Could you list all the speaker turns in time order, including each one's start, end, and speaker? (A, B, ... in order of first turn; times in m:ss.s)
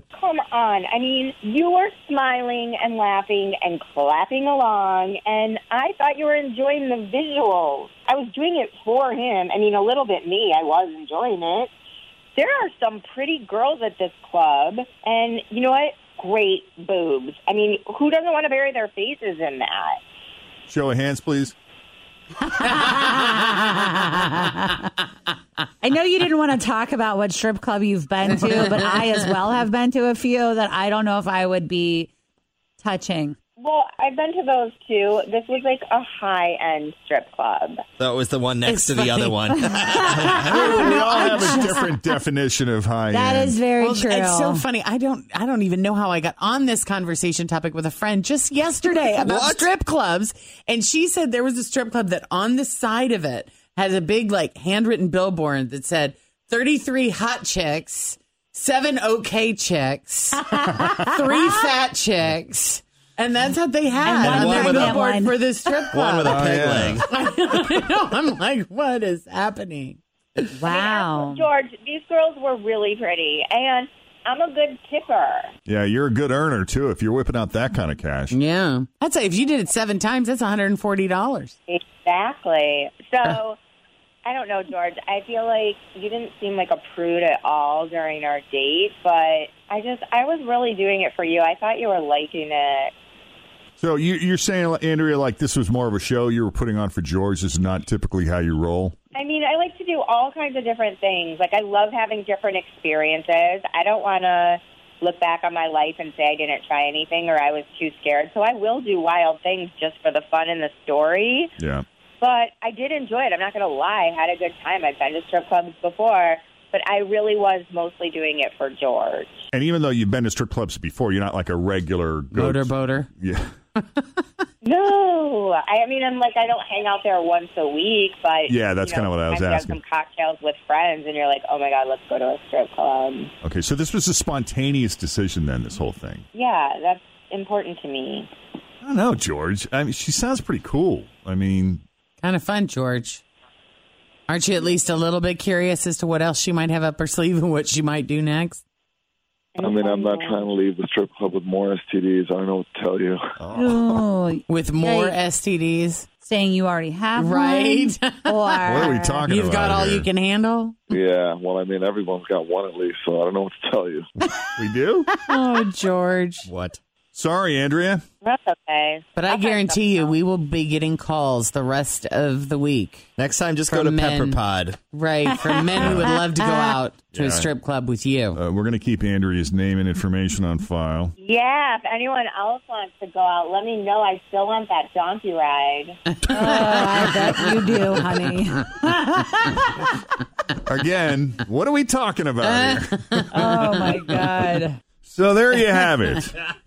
0:00.1-0:11.7 A
0:12.4-0:20.0 A
0:20.7-0:21.6 B
0:22.6-0:24.7 C
0:25.8-0:32.1 C
0:32.8-0:33.4 C
0:33.6-0:37.8 A
0:38.0-0:40.5 D
0:38.6-0:40.0 E
0:39.6-0:42.0 C
0:40.3-0:43.6 B
0:40.5-0:41.6 E
0:43.1-0:44.6 C
0:43.8-1:06.4 E
0:49.2-0:49.7 D
1:04.0-1:05.4 C
1:04.3-1:05.0 D
1:05.8-1:07.1 D
1:06.3-1:07.0 B
1:06.9-1:10.5 E
1:10.6-1:11.5 C
1:10.6-1:15.5 A
1:15.7-1:18.4 B
1:18.3-1:21.6 E
1:21.7-1:23.6 A
1:24.3-1:32.9 A
1:33.8-1:39.0 B
1:39.1-1:51.5 A
1:51.6-1:51.8 B
1:52.2-1:59.5 A
1:59.5-2:03.5 B
2:02.3-2:03.1 E
2:04.6-2:13.3 A
2:08.5-2:09.8 B
2:13.4-2:16.2 B
2:16.3-2:18.3 A
2:18.8-2:21.8 B
2:22.2-2:23.2 E
2:24.3-2:28.6 E
2:29.6-2:30.5 A
2:29.6-2:33.2 F
2:33.5-2:35.2 C
2:33.5-2:33.8 B
2:34.5-2:36.1 E
2:36.2-2:39.2 C
2:37.2-2:40.8 E
2:38.7-2:40.1 B
2:40.9-2:44.1 F
2:44.6-2:45.1 B
2:45.3-2:46.5 E
2:46.4-2:46.8 D
2:47.1-2:48.0 B
2:48.2-2:50.1 A
2:49.2-2:53.1 E
2:53.2-2:54.8 D
2:53.7-2:58.4 E
2:55.8-2:56.2 B
2:57.1-2:57.5 B
2:58.3-3:01.1 B
3:01.2-3:06.0 A
3:06.2-3:06.8 E
3:06.3-3:09.5 C
3:07.4-3:08.2 E
3:10.6-3:13.0 B
3:12.4-3:14.2 E
3:13.3-3:14.8 C
3:15.0-3:16.3 B